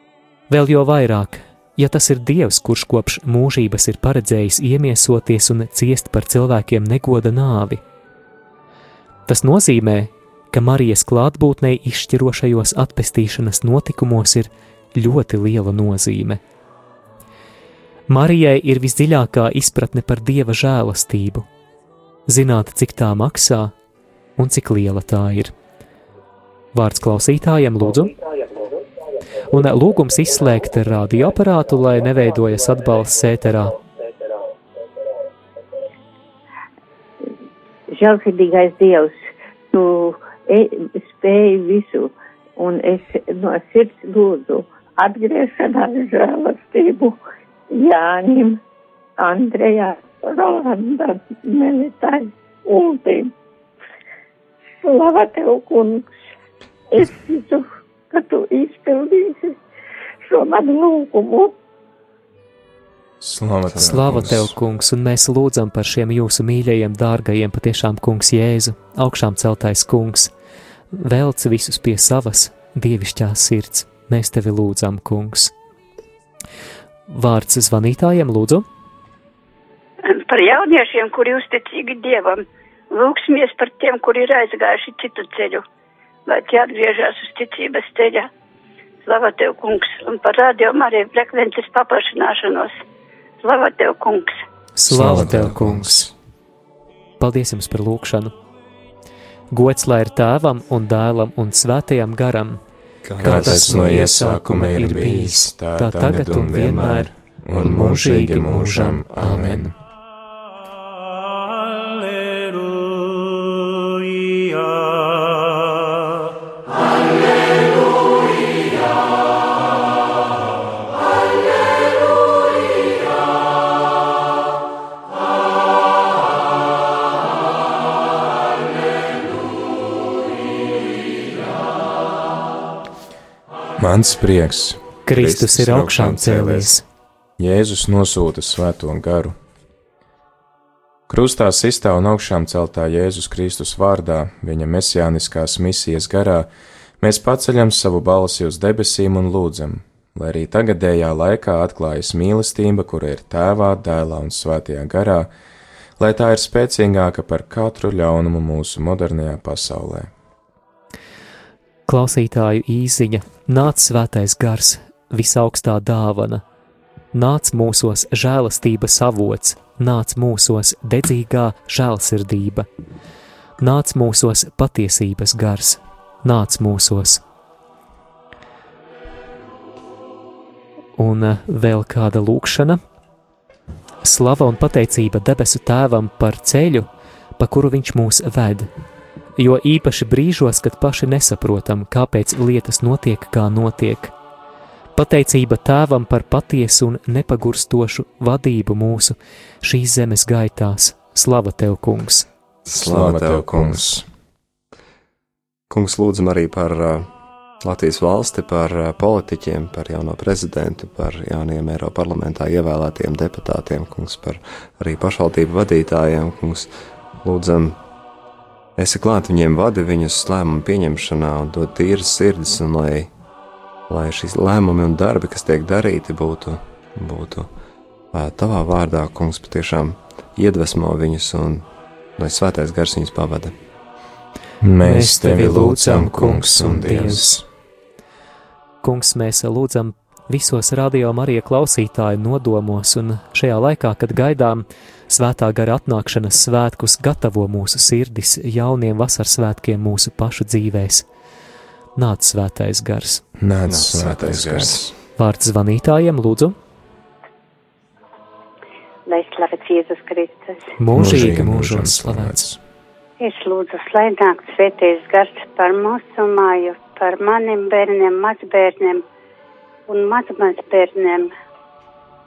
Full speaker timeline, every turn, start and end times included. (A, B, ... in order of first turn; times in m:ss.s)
0:00.5-0:07.8 A
0:09.3-0:16.4 A
0:18.1-0:21.5 A
0:22.3-0:23.7 A
0:24.4-0:25.5 A
0:26.7-0:28.1 A
0:29.5-0:33.8 A
0:37.9-0:48.6 B
0:49.2-0:53.3 B
0:54.8-0:56.1 B
0:56.9-0:59.6 B
1:00.2-1:01.5 B
1:03.2-1:04.5 C
1:03.8-1:10.3 A
1:10.9-1:15.5 A
1:17.1-1:18.6 A
1:20.1-1:25.6 D
1:26.3-1:28.3 D
1:29.0-1:32.8 D
1:33.4-1:34.4 D
1:34.8-1:36.1 A
1:34.9-1:36.0 C
1:35.0-1:36.0 E
1:37.2-1:38.3 A
1:39.5-1:42.6 A
1:43.0-1:44.0 E
1:43.2-1:49.6 A
1:43.2-1:49.7 C
2:13.8-2:14.8 C
2:15.1-2:16.8 A
2:15.1-2:16.8 E
2:17.4-2:19.4 C
2:21.1-2:35.3 C
2:36.0-2:40.1 C
2:41.9-2:46.4 A
2:47.1-2:52.7 A
2:53.6-2:57.2 A
3:01.0-3:02.8 A
3:04.0-3:06.9 A
3:07.4-3:08.7 A
3:09.4-3:14.1 A
3:14.9-3:22.3 A
3:22.6-3:24.0 E
3:22.8-3:24.0 C
3:25.7-3:27.1 E
3:27.6-3:36.7 E
3:37.2-3:37.8 E
3:38.8-3:43.1 E
3:43.9-3:47.5 E
3:48.1-3:51.6 E
3:52.2-3:53.5 E
3:54.6-3:57.4 C
3:54.8-3:57.3 A
3:58.8-4:11.1 A
4:12.0-4:13.2 A
4:13.4-4:14.9 C
4:13.7-4:14.9 E
4:15.2-4:16.6 A
4:19.1-4:20.7 F
4:20.8-4:22.5 A
4:20.9-4:22.6 C
4:23.2-4:29.0 F
4:29.9-4:31.3 F